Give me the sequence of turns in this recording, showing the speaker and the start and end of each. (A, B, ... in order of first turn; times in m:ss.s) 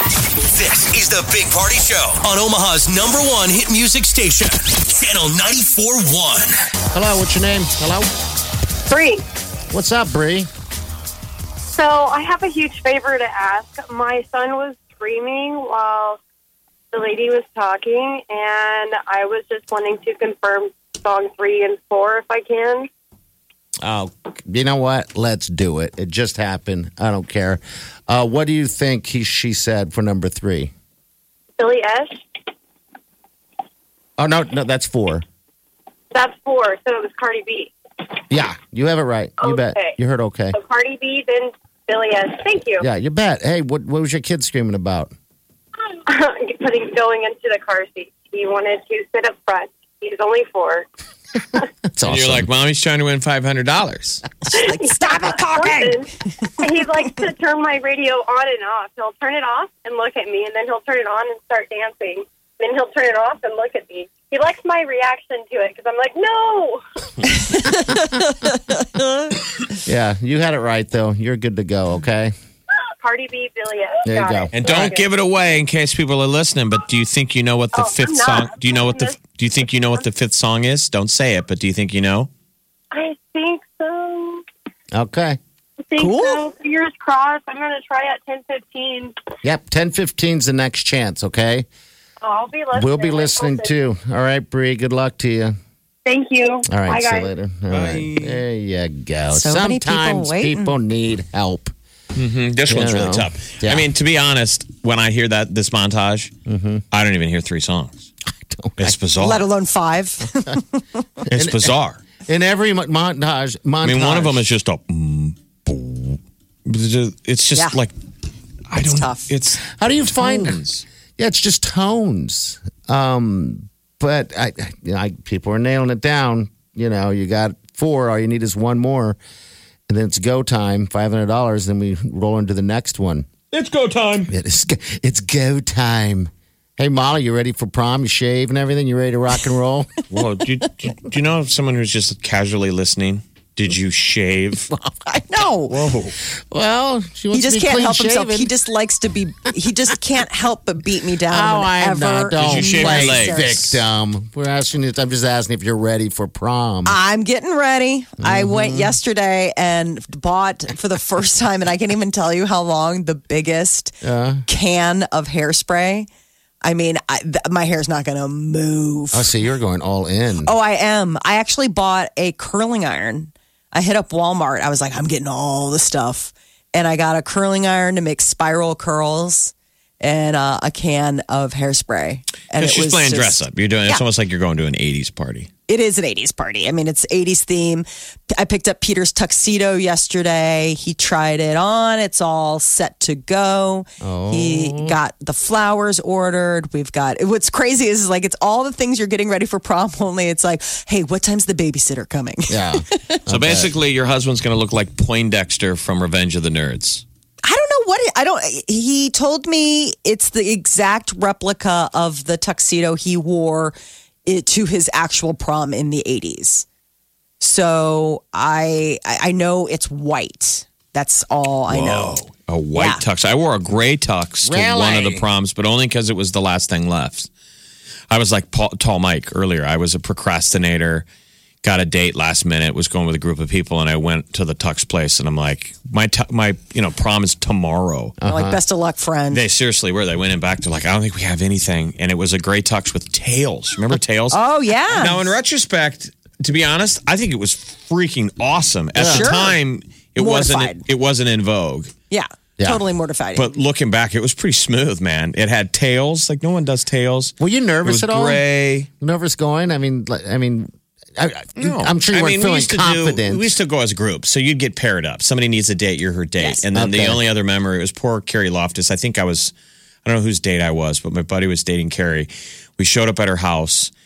0:00.5-0:06.7 A
0:06.9-0:08.1 B
0:08.9-0:09.2 C
0:09.7-0:10.5 B
0:11.7-0:16.2 C
0:16.9-0:22.9 C
0:23.8-0:30.7 B
0:31.6-0:32.1 C
0:34.2-0:35.2 B
0:36.1-0:37.7 C
0:38.3-0:40.6 B
0:39.4-0:40.0 C
0:40.5-0:42.9 C
0:42.8-0:45.1 B
0:46.1-0:50.9 C
0:51.9-0:52.5 B
0:52.0-0:54.2 D
0:54.5-0:56.1 E
0:54.5-0:56.1 C
0:56.6-1:06.8 C
1:07.6-1:08.2 E
1:09.8-1:12.3 B
1:13.0-1:15.1 C
1:14.0-1:14.5 B
1:14.5-1:22.3 D
1:17.7-1:19.2 C
1:22.9-1:24.4 C
1:24.9-1:25.4 B
1:25.9-1:29.2 C
1:26.0-1:26.4 E
1:29.4-1:31.7 B
1:32.2-1:33.8 C
1:32.7-1:35.6 B
1:36.1-1:37.3 C
1:36.7-1:41.7 B
1:37.7-1:38.4 D
1:39.3-1:40.8 E
1:42.2-1:46.3 D
1:42.7-1:43.9 B
1:46.5-1:46.8 B
1:46.9-1:48.0 D
1:48.3-1:49.0 B
1:48.8-1:49.5 D
1:49.2-1:50.8 E
1:51.3-1:52.0 D
1:51.3-1:51.7 B
1:52.3-1:54.5 B
1:53.8-1:57.9 D
1:57.5-1:57.8 E
1:58.7-2:00.8 D
1:58.8-1:59.3 E
1:59.6-2:00.6 B
2:01.2-2:09.2 B
2:09.9-2:13.3 B
2:13.5-2:14.3 D
2:14.3-2:19.9 B
2:20.1-2:24.7 D
2:25.1-2:25.8 E
2:25.7-2:28.5 B
2:25.8-2:26.1 D
2:27.3-2:33.8 E
2:31.3-2:37.0 B
2:32.4-2:33.6 D
2:36.8-2:46.1 E
2:38.2-2:39.0 B
2:44.0-2:44.4 B
2:46.6-2:49.4 E
2:49.1-2:50.5 B
2:50.4-3:04.0 E
3:02.6-3:05.5 D
3:05.7-3:07.9 E
3:08.4-3:23.2 E
3:14.0-3:15.0 B
3:22.5-3:23.8 B
3:23.3-3:27.0 D
3:27.4-3:36.7 E
3:37.4-3:42.2 E
3:41.7-3:47.3 D
3:42.7-3:43.0 E
3:44.4-3:45.2 B
3:48.1-3:51.0 D
3:51.6-3:58.2 D
3:58.2-3:58.6 B
3:58.2-3:59.4 E
3:59.3-4:11.9 D
4:04.3-4:05.3 E
4:09.0-4:09.3 B
4:09.0-4:09.6 E
4:10.2-4:10.8 E
4:12.1-4:13.5 E
4:13.4-4:18.9 D
4:17.4-4:18.4 B
4:19.0-4:23.6 B
4:21.6-4:29.5 D
4:26.7-4:27.2 B
4:30.0-4:33.9 D